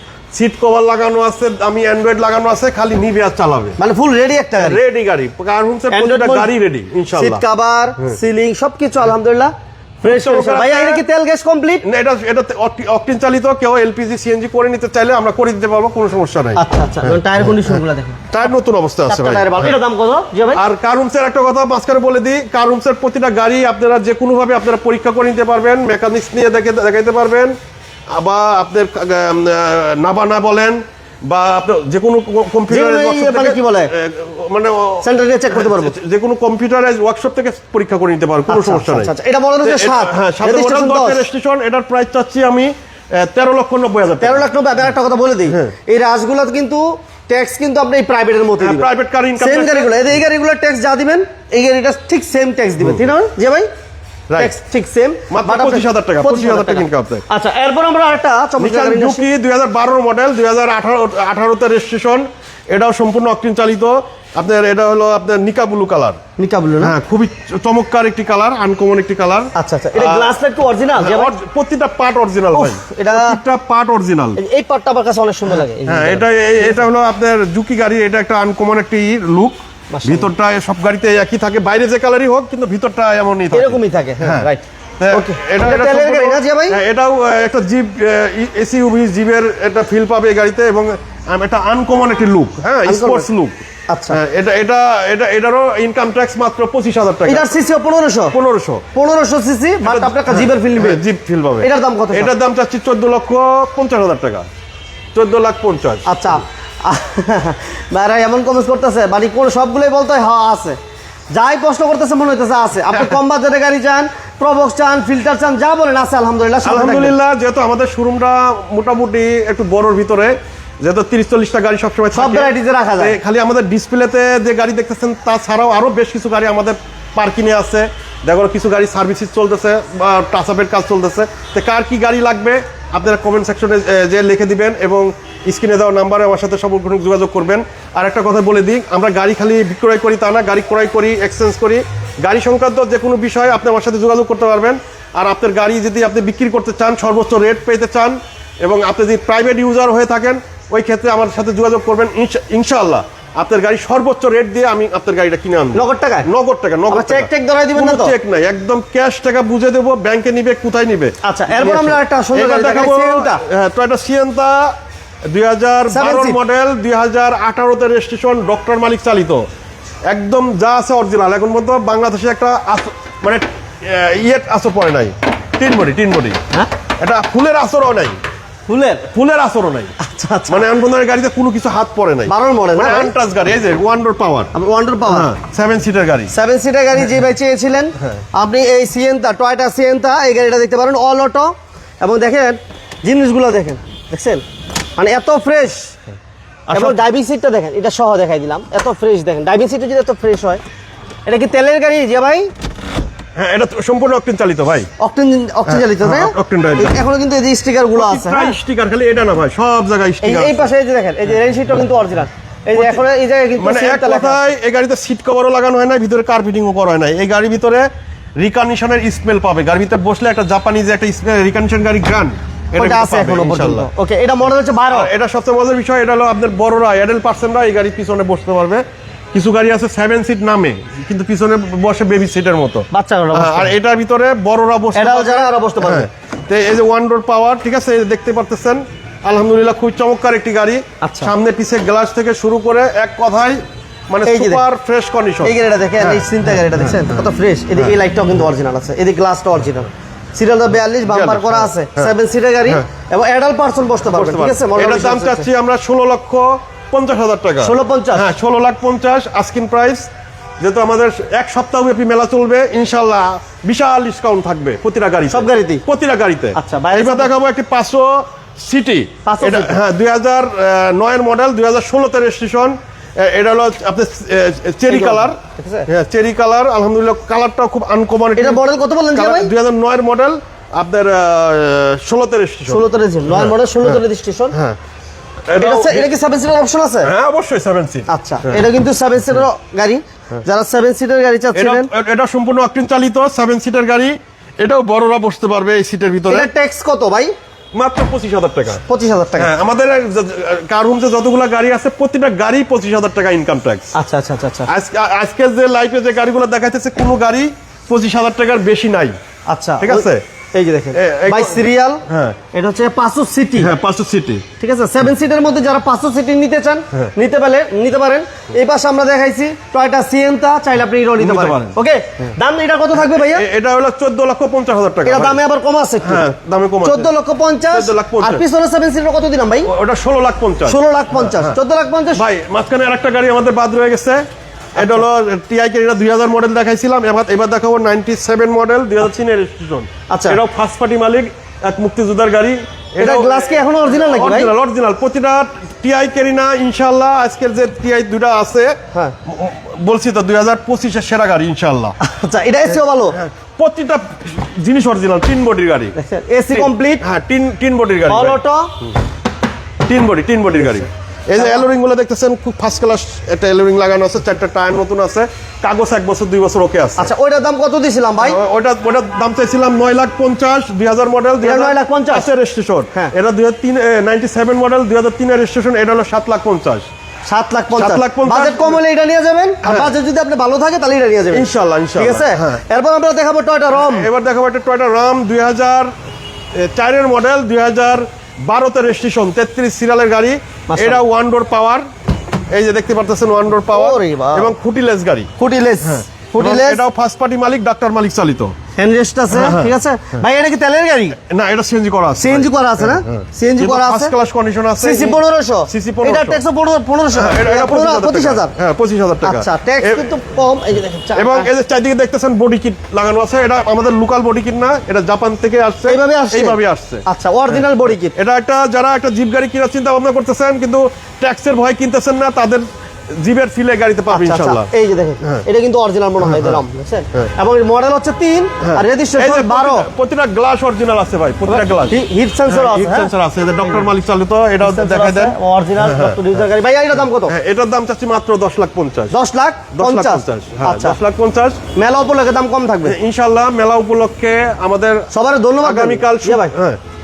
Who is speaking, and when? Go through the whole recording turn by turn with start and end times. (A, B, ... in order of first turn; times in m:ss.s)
0:00.3-0:03.8 A
0:03.8-0:04.8 B
0:04.6-0:07.4 A
0:05.9-0:06.5 B
0:07.1-0:11.8 B
0:10.1-0:11.0 A
0:11.8-0:19.7 A
0:16.6-0:18.4 B
0:19.1-0:20.6 B
0:20.5-0:27.5 A
0:28.1-0:44.5 A
0:32.7-0:33.9 B
0:35.0-0:36.0 B
0:38.5-0:41.2 B
0:44.2-0:53.7 B
0:45.5-0:45.7 A
0:48.6-0:50.0 A
0:52.8-0:53.1 A
0:54.4-0:59.2 B
0:55.3-0:57.2 A
0:58.6-1:06.2 A
1:06.4-1:06.9 B
1:06.8-1:10.3 A
1:09.5-1:11.4 B
1:11.0-1:14.4 A
1:12.5-1:13.4 B
1:14.4-1:16.2 B
1:15.8-1:24.5 A
1:19.9-1:20.3 B
1:23.5-1:26.8 B
1:25.0-1:33.6 A
1:32.8-1:33.3 B
1:33.9-1:34.2 B
1:34.1-1:37.5 A
1:37.3-1:38.4 B
1:38.3-1:38.8 A
1:38.9-1:41.0 B
1:39.8-1:44.5 A
1:41.6-1:42.3 B
1:45.1-1:46.1 A
1:46.0-1:50.8 B
1:51.3-1:57.1 B
1:56.6-2:44.7 A
2:02.1-2:03.2 B
2:35.7-2:36.3 B
2:36.9-2:38.1 B
2:41.2-2:43.4 B
2:45.3-2:49.4 A
2:45.9-2:46.4 B
2:50.1-2:56.4 A
2:57.0-2:58.2 A
2:58.7-2:59.0 B
2:59.0-2:59.9 A
3:00.0-3:00.7 B
3:00.5-3:04.5 A
3:02.3-3:03.1 B
3:04.5-3:05.3 B
3:05.1-3:06.3 A
3:06.3-3:14.4 B
3:15.0-3:16.0 B
3:16.7-3:17.0 A
3:16.7-3:20.6 B
3:21.2-3:22.5 B
3:23.4-3:24.9 A
3:25.0-3:28.5 B
3:25.7-3:26.9 A
3:27.9-3:30.7 A
3:30.2-3:34.4 B
3:32.7-3:33.0 A
3:33.6-3:37.9 A
3:38.4-3:43.9 A
3:42.8-3:45.1 B
3:44.9-4:07.2 A
3:52.9-3:53.7 B
3:54.9-3:56.1 B
4:01.0-4:01.3 B
4:04.2-4:04.6 B
4:05.4-4:15.5 B
4:11.0-4:12.1 A
4:14.0-4:20.1 A
4:17.6-4:18.2 B
4:20.6-4:44.8 A
4:25.3-4:25.8 B
4:26.5-4:27.3 B
4:29.2-4:29.8 B
4:34.9-4:35.9 B
4:38.4-4:39.5 B
4:42.7-4:44.6 B
4:45.5-4:46.1 A
4:45.6-4:47.1 B
4:47.0-4:48.6 A
4:48.1-4:51.9 B
4:51.5-4:56.5 A
4:56.3-4:57.3 B
4:57.7-4:58.8 A
4:58.8-4:59.5 B
4:59.4-5:03.9 A
5:03.9-5:04.7 B
5:04.7-5:09.1 A
5:09.5-5:13.7 B
5:09.8-5:10.2 A
5:10.9-5:12.4 A
5:13.6-5:14.4 A
5:14.6-5:23.4 B
5:21.2-5:21.8 A
5:22.9-5:25.4 A
5:25.0-5:26.2 B
5:26.0-5:27.1 A
5:26.8-5:29.7 B
5:27.7-5:28.4 A
5:29.6-5:31.6 A
5:30.7-5:32.2 B
5:32.1-5:34.2 A
5:34.8-5:52.0 A
5:34.8-5:35.0 B
5:40.1-5:40.4 B
5:43.0-5:44.5 B
5:52.0-5:53.2 B
5:53.1-5:55.9 A
5:56.0-5:57.0 B
5:56.5-5:58.4 A
5:58.1-5:58.7 B
5:59.8-6:07.1 A
6:01.4-6:01.7 B
6:07.0-6:08.4 B
6:08.2-6:16.9 A
6:11.4-6:12.3 B
6:17.3-6:24.1 B
6:17.7-6:18.8 A
6:19.6-6:19.9 A
6:21.3-6:22.6 A
6:23.7-6:25.9 A
6:26.5-6:31.8 A
6:30.7-6:31.0 B
6:32.5-6:35.3 A
6:33.7-6:34.5 B
6:35.4-6:36.8 B
6:35.8-6:38.5 A
6:38.8-6:41.2 B
6:39.3-6:40.2 A
6:41.2-6:46.4 A
6:42.2-6:44.1 B
6:44.8-6:48.5 B
6:47.1-6:50.1 A
6:49.2-6:51.5 B
6:51.1-7:04.7 A
6:55.9-6:58.1 B
7:04.1-7:09.9 B
7:06.2-7:06.6 A
7:08.6-7:16.4 A
7:11.5-7:13.1 B
7:14.6-7:17.3 B
7:17.2-7:19.1 A
7:19.1-7:21.0 B
7:19.7-7:21.6 A
7:21.7-7:23.0 B
7:22.8-7:25.1 A
7:25.1-7:26.5 B
7:25.6-7:26.8 A